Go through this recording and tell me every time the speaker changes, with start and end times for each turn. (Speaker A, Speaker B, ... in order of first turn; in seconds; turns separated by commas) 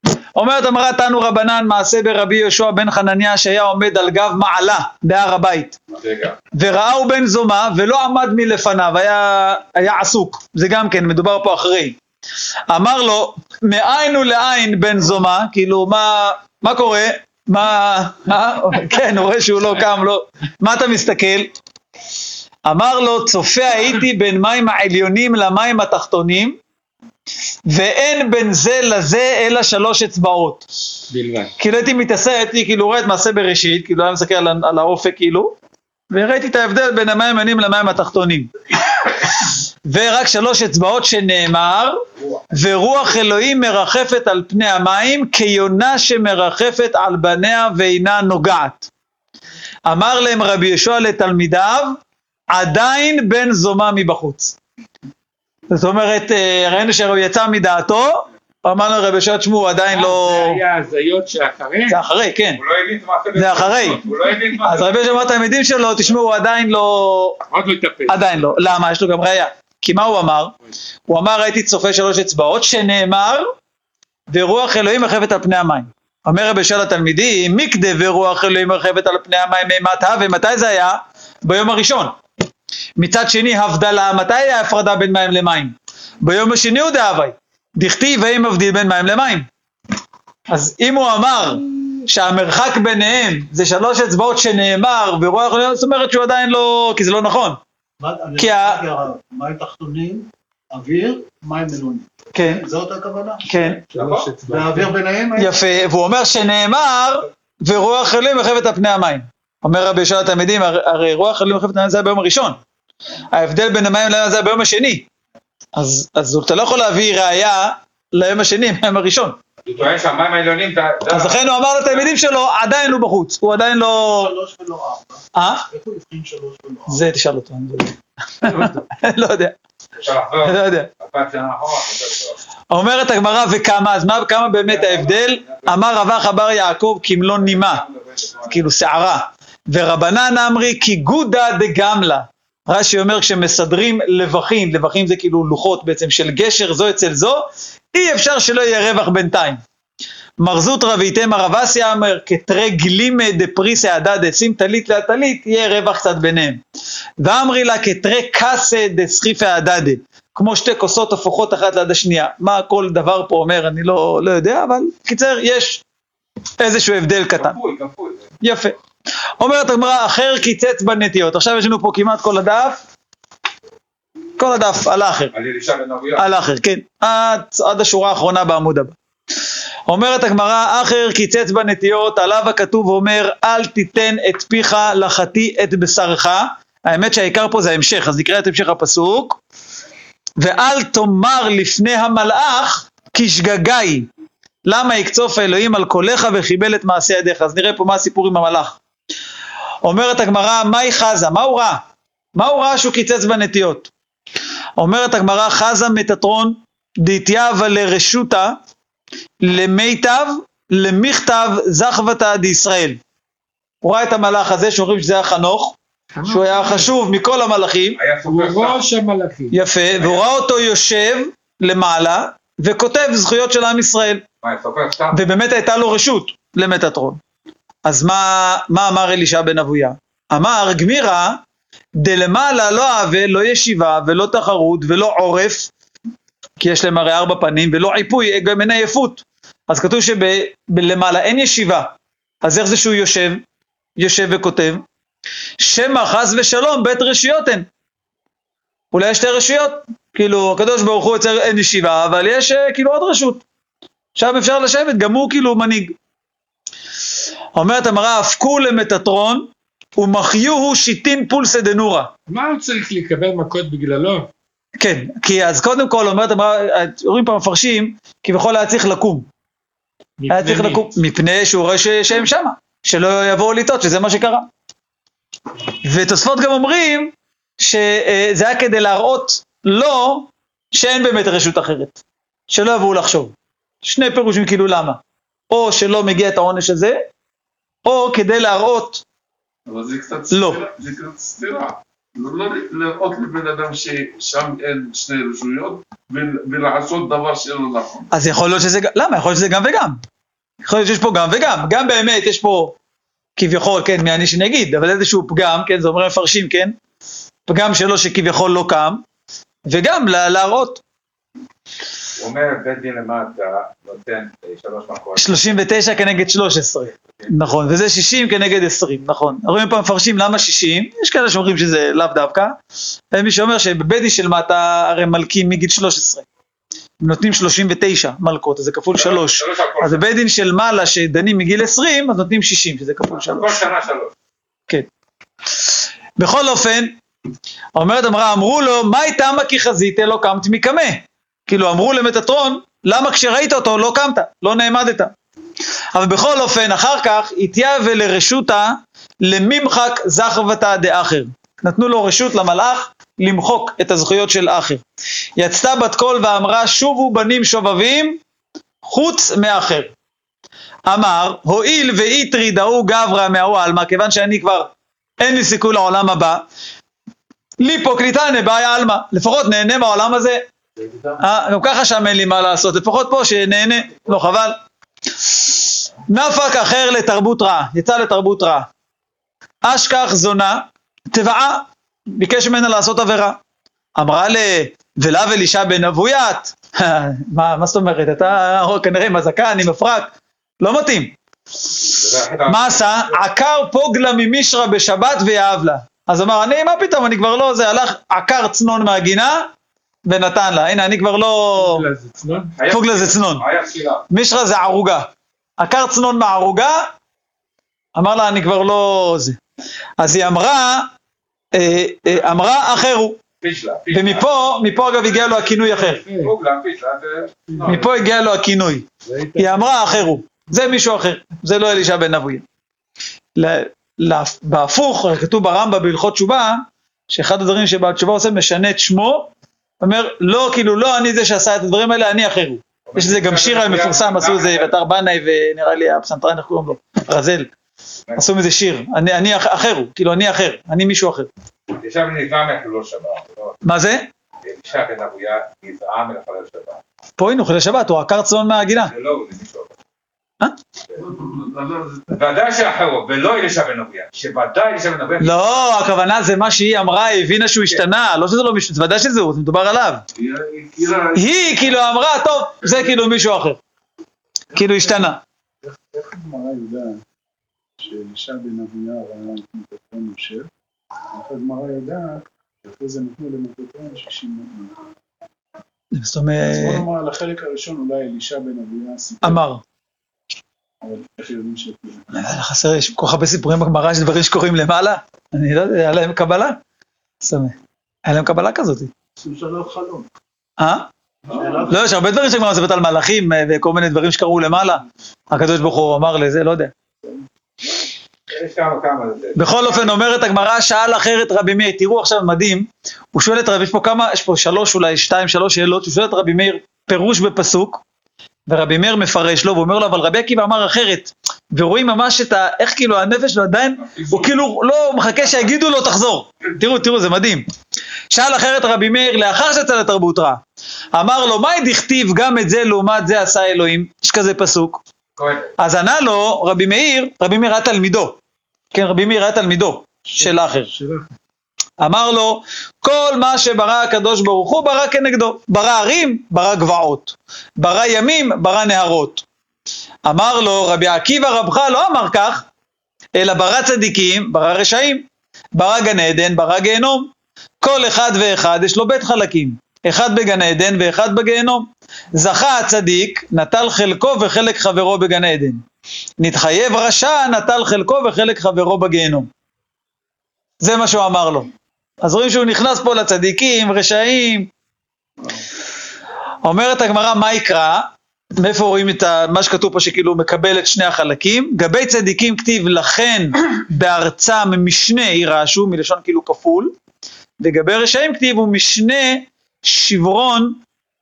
Speaker A: 0.3-5.8, Speaker B: 5.9-6.4, Speaker A: 6.5-12.0, Speaker A: 12.7-21.5, Speaker A: 22.6-26.6, Speaker A: 27.6-30.6, Speaker C: 31.1-31.5, Speaker A: 31.6-35.5, Speaker A: 36.1-38.5, Speaker A: 39.1-48.9, Speaker B: 42.2-42.5, Speaker A: 49.9-52.0, Speaker A: 52.5-54.5, Speaker A: 55.7-60.6, Speaker C: 59.9-62.0, Speaker A: 61.9-62.6, Speaker B: 62.5-65.0, Speaker A: 63.3-67.4, Speaker C: 67.5-68.3, Speaker A: 68.1-70.5, Speaker A: 71.1-73.5, Speaker A: 74.3-82.1, Speaker A: 83.0-89.5, Speaker A: 90.5-97.6, Speaker D: 98.0-103.7, Speaker A: 98.4-98.8, Speaker A: 102.3-102.7, Speaker A: 103.4-103.8, Speaker C: 103.9-105.0, Speaker B: 103.9-104.3, Speaker D: 104.5-105.5, Speaker A: 105.3-112.6, Speaker A: 113.3-115.0, Speaker A: 115.7-119.4, Speaker B: 119.6-121.4, Speaker A: 121.1-124.3, Speaker D: 124.0-127.0, Speaker A: 125.3-125.7, Speaker A: 126.9-129.5, Speaker B: 130.0-132.4, Speaker A: 130.4-130.9, Speaker A: 132.7-137.8, Speaker B: 134.7-135.7, Speaker B: 137.4-138.7, Speaker A: 138.5-149.6, Speaker A: 150.4-156.6, Speaker A: 157.2-165.8, Speaker A: 166.6-167.6, Speaker B: 167.4-168.3, Speaker A: 168.4-168.7, Speaker A: 169.4-172.8, Speaker A: 174.4-175.3, Speaker B: 175.3-176.3, Speaker A: 176.2-178.9, Speaker A: 179.9-189.4, Speaker A: 190.4-194.1, Speaker A: 194.7-198.8, Speaker A: 199.8-201.8, Speaker A: 202.3-203.9, Speaker A: 204.8-208.5, Speaker A: 209.4-213.0, Speaker A: 213.8-215.8, Speaker C: 216.1-216.9, Speaker A: 216.3-218.0, Speaker B: 217.9-218.8, Speaker C: 218.2-219.6, Speaker A: 219.5-224.2, Speaker B: 220.0-220.2, Speaker B: 224.4-225.2, Speaker A: 225.1-227.2, Speaker A: 227.8-231.4, Speaker A: 231.9-235.7, Speaker A: 236.6-243.4, Speaker A: 244.0-244.8, Speaker A: 245.6-247.7, Speaker A: 248.9-253.4, Speaker A: 254.2-255.9, Speaker A: 257.5-262.1, Speaker C: 262.3-264.3, Speaker A: 264.8-269.3, Speaker C: 270.2-270.9, Speaker A: 270.3-274.5, Speaker A: 275.8-285.0, Speaker A: 285.5-287.0, Speaker A: 287.8-289.0, Speaker E: 289.6-298.1, Speaker A: 290.3-290.6, Speaker A: 298.1-300.0, Speaker A: 300.6-302.8, Speaker A: 303.4-306.8, Speaker A: 307.5-309.0, Speaker A: 309.7-310.8, Speaker B: 312.2-315.6, Speaker A: 315.1-322.6, Speaker A: 323.1-326.2, Speaker A: 327.0-333.6, Speaker B: 329.0-330.0, Speaker B: 333.2-334.1, Speaker A: 335.6-336.9, Speaker A: 337.7-345.1, Speaker A: 345.9-354.8, Speaker A: 355.4-358.2, Speaker A: 358.8-359.9, Speaker A: 360.9-366.4, Speaker A: 367.6-370.4, Speaker A: 371.2-374.6, Speaker A: 375.2-378.7, Speaker A: 379.6-383.4, Speaker A: 383.9-391.1, Speaker B: 391.9-392.9, Speaker A: 392.5-399.5, Speaker A: 400.1-401.8, Speaker C: 401.6-402.5, Speaker B: 402.5-404.0, Speaker A: 402.7-403.4, Speaker A: 404.1-406.9, Speaker A: 407.9-409.4, Speaker A: 410.0-410.9, Speaker A: 411.5-413.2, Speaker B: 413.4-414.3, Speaker A: 413.9-416.0, Speaker C: 415.8-416.3, Speaker B: 416.2-417.8, Speaker C: 417.5-417.9, Speaker A: 417.6-422.4, Speaker C: 419.0-420.1, Speaker A: 423.4-429.3, Speaker A: 429.8-437.5, Speaker B: 432.9-434.7, Speaker A: 438.1-441.3, Speaker B: 441.8-443.6, Speaker A: 443.6-444.1, Speaker B: 444.4-446.8, Speaker A: 447.2-448.9, Speaker B: 448.8-449.7, Speaker E: 451.0-452.1, Speaker B: 452.1-455.6, Speaker A: 455.2-460.0, Speaker E: 460.1-461.3, Speaker A: 461.1-463.6, Speaker A: 464.5-465.2, Speaker F: 464.6-465.1, Speaker F: 465.6-467.0, Speaker F: 467.8-470.5, Speaker F: 471.1-474.8, Speaker A: 475.9-476.8, Speaker F: 476.4-479.4, Speaker A: 479.2-479.6, Speaker F: 480.8-482.1, Speaker A: 482.1-486.6, Speaker A: 487.2-488.9, Speaker D: 489.2-490.1, Speaker A: 490.6-490.9, Speaker D: 491.3-491.8, Speaker F: 491.3-491.7, Speaker A: 491.7-496.7, Speaker B: 498.3-499.6, Speaker A: 499.3-507.8, Speaker A: 508.5-517.4, Speaker B: 513.9-514.3, Speaker A: 518.1-520.4, Speaker A: 520.9-524.8, Speaker B: 525.2-525.5, Speaker A: 525.6-528.2, Speaker A: 528.7-530.7, Speaker F: 530.2-531.0, Speaker A: 531.8-539.2, Speaker A: 540.0-542.4, Speaker A: 543.1-547.1, Speaker A: 547.6-555.6, Speaker A: 556.2-559.3, Speaker A: 560.6-561.5, Speaker A: 562.0-564.5, Speaker A: 566.4-576.7, Speaker A: 577.4-580.6